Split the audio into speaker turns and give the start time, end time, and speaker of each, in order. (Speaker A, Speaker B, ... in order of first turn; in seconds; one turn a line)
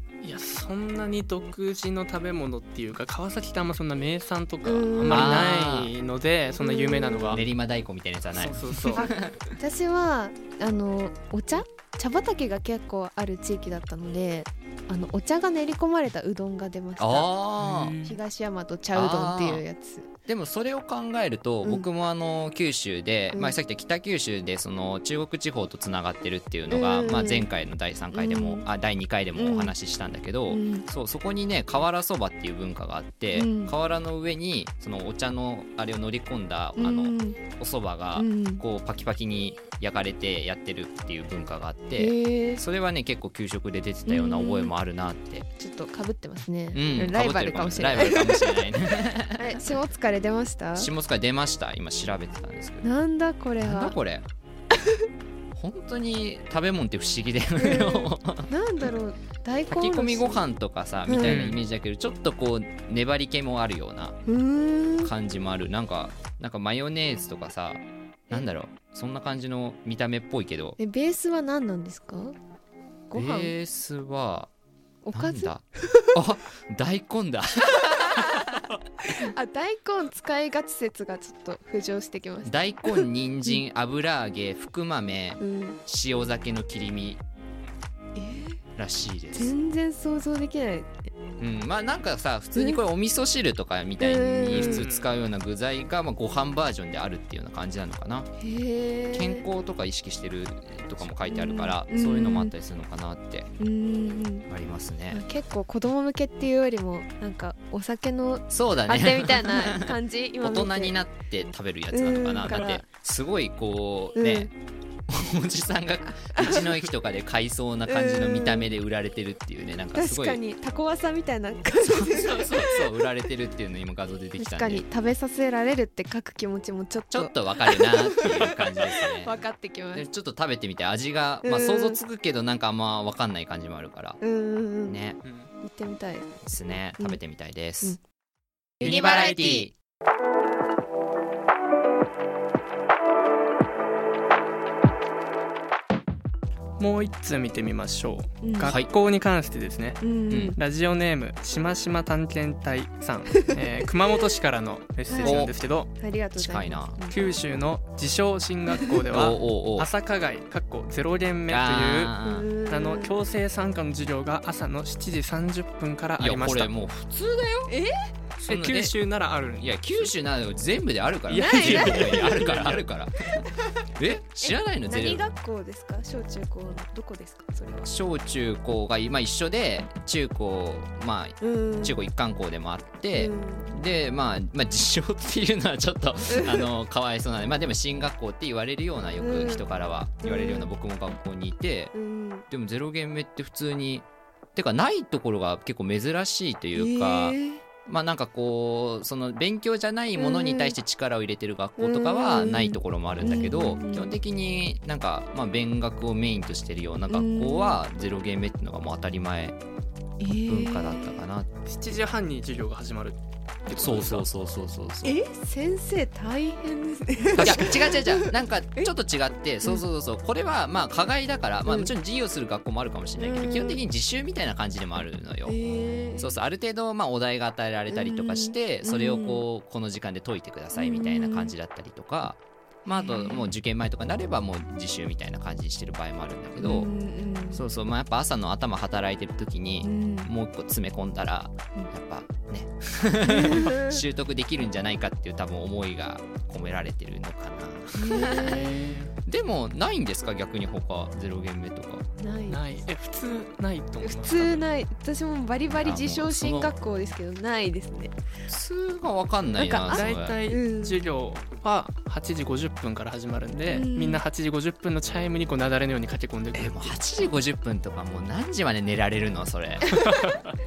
Speaker A: 0.2-7.4
Speaker B: 4.6-5.4
Speaker C: 5.1-5.9
Speaker B: 6.6-7.4
Speaker C: 7.3-9.5
Speaker A: 8.3-9.1
Speaker B: 8.9-17.4
Speaker C: 17.0-18.0
Speaker A: 17.6-18.1
Speaker B: 18.0-20.1
Speaker C: 18.9-19.6
Speaker C: 20.2-45.5
Speaker B: 23.3-23.6
Speaker B: 26.7-27.5
Speaker B: 28.1-28.6
Speaker B: 29.3-29.7
Speaker B: 30.5-30.9
Speaker B: 33.3-33.7
Speaker B: 36.8-37.4
Speaker B: 38.1-38.6
Speaker B: 42.0-42.6
Speaker B: 44.0-44.7
Speaker B: 45.6-48.6
Speaker C: 46.7-49.6
Speaker B: 49.3-50.9
Speaker C: 50.7-52.9
Speaker B: 52.8-54.0
Speaker C: 53.6-54.2
Speaker C: 55.5-58.5
Speaker B: 57.6-60.5
Speaker C: 59.7-64.2
Speaker B: 61.0-61.5
Speaker A: 61.2-61.6
Speaker B: 64.3-65.1
Speaker C: 65.0-70.8
Speaker B: 70.8-72.3
Speaker B: 73.1-73.5
Speaker C: 73.1-74.5
Speaker B: 75.0-76.1
Speaker C: 75.1-78.6
Speaker B: 78.0-78.5
Speaker B: 79.0-83.6
Speaker C: 82.4-87.2
Speaker B: 85.4-85.8
Speaker B: 88.1-88.6
Speaker C: 88.8-89.5
Speaker B: 89.3-91.0
Speaker C: 91.4-98.3
Speaker B: 92.5-92.8
Speaker B: 94.0-94.8
Speaker A: 94.5-95.1
Speaker B: 98.4-99.5
Speaker C: 99.1-103.5
Speaker B: 101.3-102.5
Speaker B: 103.6-104.5
Speaker C: 104.5-105.2
Speaker B: 105.1-111.0
Speaker C: 108.5-114.5
Speaker B: 111.9-112.8
Speaker B: 114.2-114.5
Speaker C: 115.1-120.4
Speaker B: 116.3-116.7
Speaker B: 117.9-118.7
Speaker B: 119.9-122.8
Speaker C: 121.8-124.8
Speaker B: 124.4-128.5
Speaker C: 127.1-134.2
Speaker B: 129.2-130.1
Speaker B: 131.4-132.0
Speaker B: 134.2-135.0
Speaker C: 134.8-135.2
Speaker A: 135.2-135.5
Speaker B: 135.6-137.2
Speaker C: 136.4-138.0
Speaker B: 138.8-139.6
Speaker C: 138.8-139.7
Speaker A: 138.8-139.7
Speaker A: 146.8-150.0
Speaker B: 148.4-148.8
Speaker C: 148.6-148.9
Speaker B: 150.0-150.6
Speaker C: 150.3-150.6
Speaker A: 150.5-155.9
Speaker B: 153.3-153.6
Speaker B: 155.1-157.3
Speaker C: 155.2-155.5
Speaker C: 156.3-157.0
Speaker A: 157.1-162.1
Speaker C: 159.1-159.9
Speaker C: 161.5-162.5
Speaker B: 162.2-163.1
Speaker A: 162.7-166.7
Speaker C: 166.2-167.7
Speaker B: 167.7-167.9
Speaker A: 168.4-170.1
Speaker C: 168.5-168.9
Speaker C: 169.6-175.3
Speaker A: 171.3-172.8
Speaker B: 171.3-172.3
Speaker B: 174.4-177.9
Speaker C: 177.8-191.9
Speaker B: 181.4-182.0
Speaker B: 183.1-183.8
Speaker B: 186.3-186.7
Speaker B: 189.2-189.6
Speaker B: 190.2-190.7
Speaker B: 191.9-192.5
Speaker C: 192.5-209.6
Speaker B: 196.8-197.6
Speaker B: 200.2-200.8
Speaker B: 201.8-204.1
Speaker B: 207.1-207.8
Speaker B: 210.2-211.2
Speaker C: 210.4-211.5
Speaker A: 211.7-214.3
Speaker C: 213.8-215.2
Speaker B: 215.0-218.9
Speaker C: 217.4-225.6
Speaker B: 221.7-221.9
Speaker B: 223.2-223.8
Speaker B: 225.4-226.3
Speaker C: 226.2-236.9
Speaker B: 227.9-229.4
Speaker B: 230.7-231.5
Speaker B: 232.9-233.5
Speaker B: 236.6-237.6
Speaker C: 237.5-252.1
Speaker B: 239.8-240.3
Speaker B: 243.3-244.0
Speaker B: 247.9-248.9
Speaker A: 248.3-249.1
Speaker B: 252.2-252.8
Speaker A: 252.5-254.6
Speaker B: 254.0-258.1
Speaker C: 255.7-256.7
Speaker C: 258.5-260.4
Speaker B: 259.5-261.0
Speaker A: 259.9-267.0
Speaker B: 263.7-264.2
Speaker C: 266.5-269.9
Speaker B: 269.9-270.3
Speaker A: 269.9-270.5